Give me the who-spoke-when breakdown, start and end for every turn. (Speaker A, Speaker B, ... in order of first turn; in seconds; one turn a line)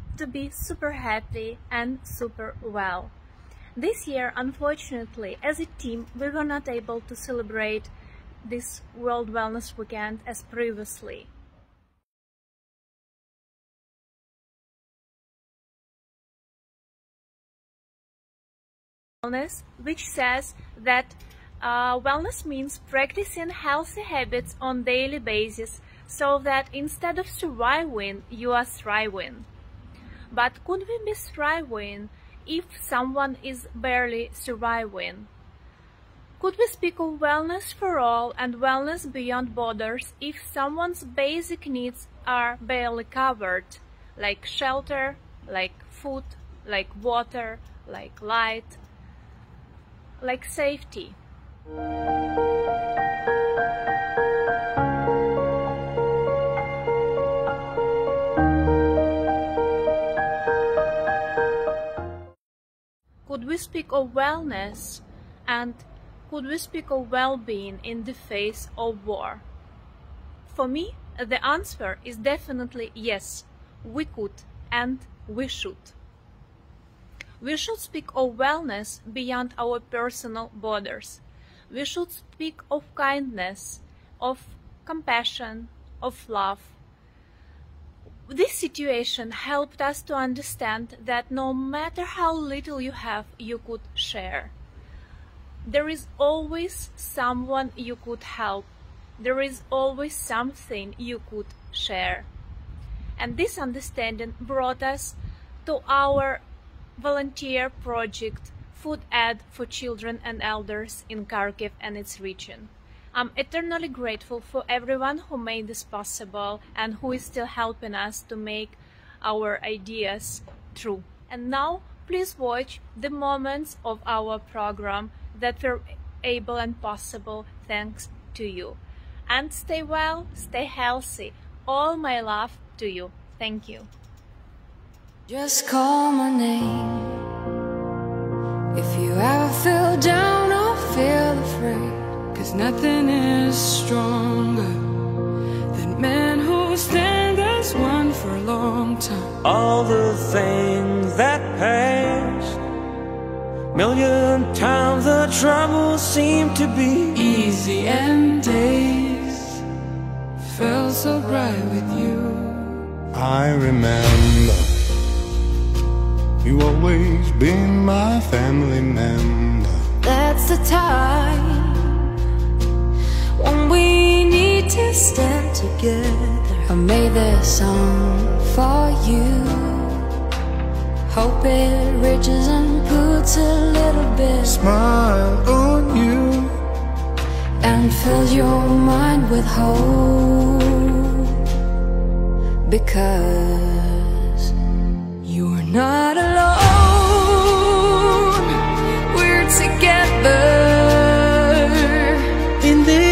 Speaker A: 0.1-3.1
Speaker A: 3.8-7.9
Speaker A: 8.4-11.3
Speaker A: 19.2-29.4
Speaker A: 30.3-35.3
Speaker A: 36.4-48.8
Speaker A: 50.2-51.1
Speaker A: 63.2-69.4
Speaker A: 70.5-75.9
Speaker A: 77.4-86.7
Speaker A: 88.3-94.5
Speaker A: 95.6-98.7
Speaker A: 99.2-102.3
Speaker A: 103.2-106.4
Speaker A: 107.0-133.9
Speaker B: 135.3-137.3
Speaker B: 138.7-145.0
Speaker B: 145.7-149.3
Speaker C: 149.4-152.6
Speaker C: 153.7-157.2
Speaker B: 157.1-159.6
Speaker B: 160.4-162.8
Speaker D: 163.1-164.7
Speaker D: 166.4-169.8
Speaker B: 170.0-172.1
Speaker B: 173.4-180.2
Speaker B: 181.1-184.6
Speaker D: 184.4-186.6
Speaker B: 187.6-191.5
Speaker B: 192.6-194.5
Speaker B: 195.2-202.5